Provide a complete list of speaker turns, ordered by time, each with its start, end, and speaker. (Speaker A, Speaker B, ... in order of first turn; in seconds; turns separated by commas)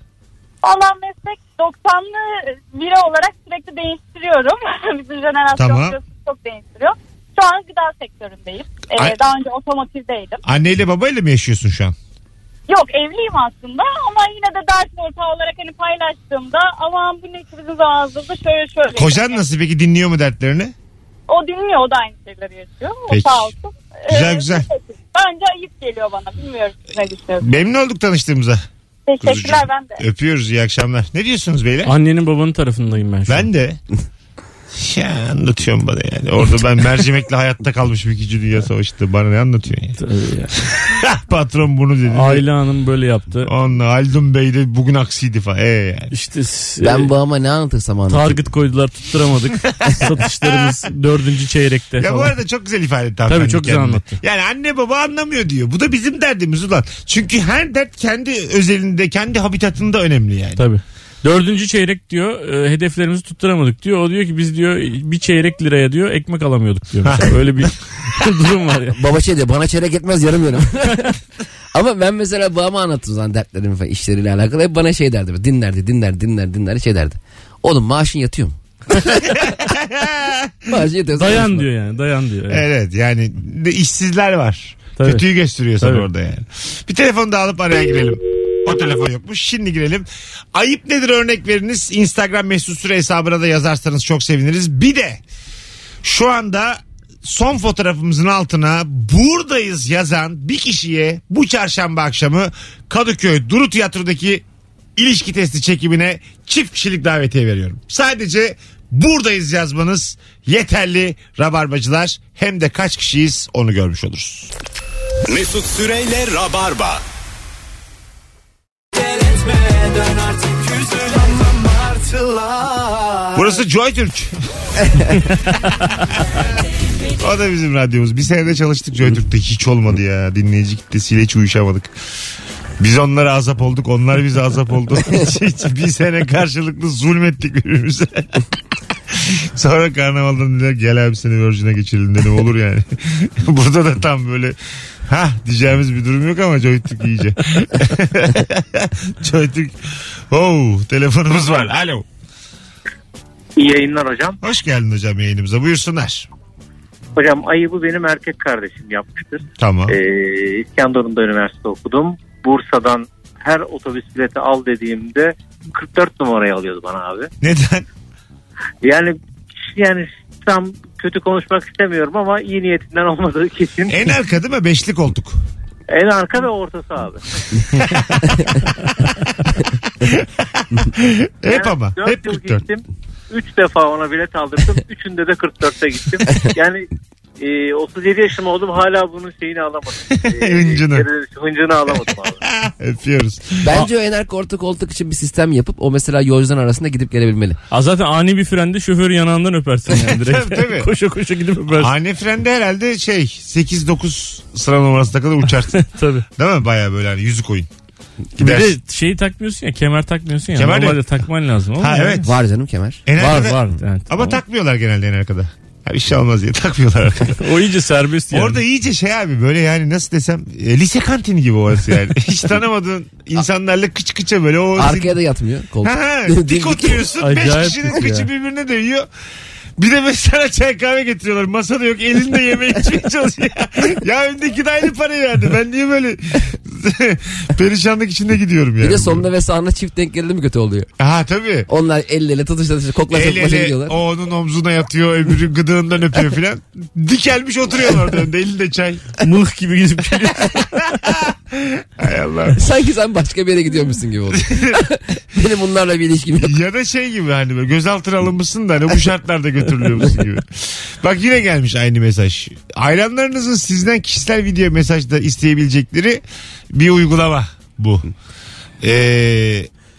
Speaker A: 0.6-10.4, Speaker B: 5.5-6.0, Speaker B: 10.4-11.9, Speaker A: 12.7-19.4, Speaker B: 18.9-20.7, Speaker A: 21.3-27.5, Speaker B: 23.1-23.5, Speaker B: 24.1-24.7, Speaker B: 27.4-28.6, Speaker A: 29.1-30.0, Speaker B: 29.2-31.9, Speaker C: 31.8-33.5, Speaker B: 33.3-33.8, Speaker B: 34.7-40.0, Speaker C: 40.0-40.5, Speaker B: 40.6-42.5, Speaker C: 42.1-43.5, Speaker B: 43.4-46.1, Speaker C: 46.1-47.1, Speaker D: 46.8-48.3, Speaker C: 48.1-52.3, Speaker B: 49.6-50.8, Speaker B: 52.0-60.6, Speaker C: 53.3-54.2, Speaker C: 60.6-69.0, Speaker B: 67.0-67.7, Speaker D: 68.9-71.1, Speaker D: 71.7-78.5, Speaker B: 79.2-80.6, Speaker D: 80.7-81.6, Speaker C: 81.1-82.6, Speaker B: 82.5-95.2, Speaker C: 85.0-85.2, Speaker C: 85.8-86.0, Speaker B: 96.0-104.4, Speaker B: 105.0-114.5, Speaker E: 115.3-117.0, Speaker E: 119.7-121.2, Speaker B: 123.3-124.3, Speaker C: 125.2-125.9, Speaker B: 127.2-131.9, Speaker B: 132.8-138.4, Speaker B: 139.1-152.1, Speaker F: 153.6-154.4, Speaker B: 154.4-156.3, Speaker F: 157.2-167.3, Speaker B: 159.6-160.0, Speaker B: 167.4-167.8, Speaker F: 168.8-174.1, Speaker B: 173.9-175.4, Speaker F: 175.9-177.9, Speaker B: 177.7-178.4, Speaker B: 180.0-182.6, Speaker F: 181.5-186.9, Speaker F: 187.4-192.4, Speaker B: 190.1-191.1, Speaker B: 191.9-193.6, Speaker D: 193.6-197.6, Speaker C: 197.7-201.9, Speaker B: 199.9-200.9, Speaker B: 201.7-207.7, Speaker C: 205.7-206.2, Speaker C: 208.4-212.3, Speaker B: 208.4-208.7, Speaker B: 210.5-211.1, Speaker B: 211.8-212.3, Speaker D: 212.2-213.0, Speaker B: 213.1-217.4, Speaker C: 213.1-214.4, Speaker C: 217.3-218.6, Speaker B: 218.3-225.1, Speaker D: 224.8-227.0, Speaker B: 225.8-229.1, Speaker C: 227.2-228.3, Speaker B: 229.8-239.3, Speaker D: 238.8-240.9, Speaker B: 241.0-241.7, Speaker D: 241.7-243.9, Speaker B: 243.1-249.1, Speaker C: 249.2-250.7, Speaker B: 250.5-252.6, Speaker D: 252.6-256.5, Speaker B: 254.3-254.8, Speaker B: 256.4-268.1, Speaker B: 268.8-269.7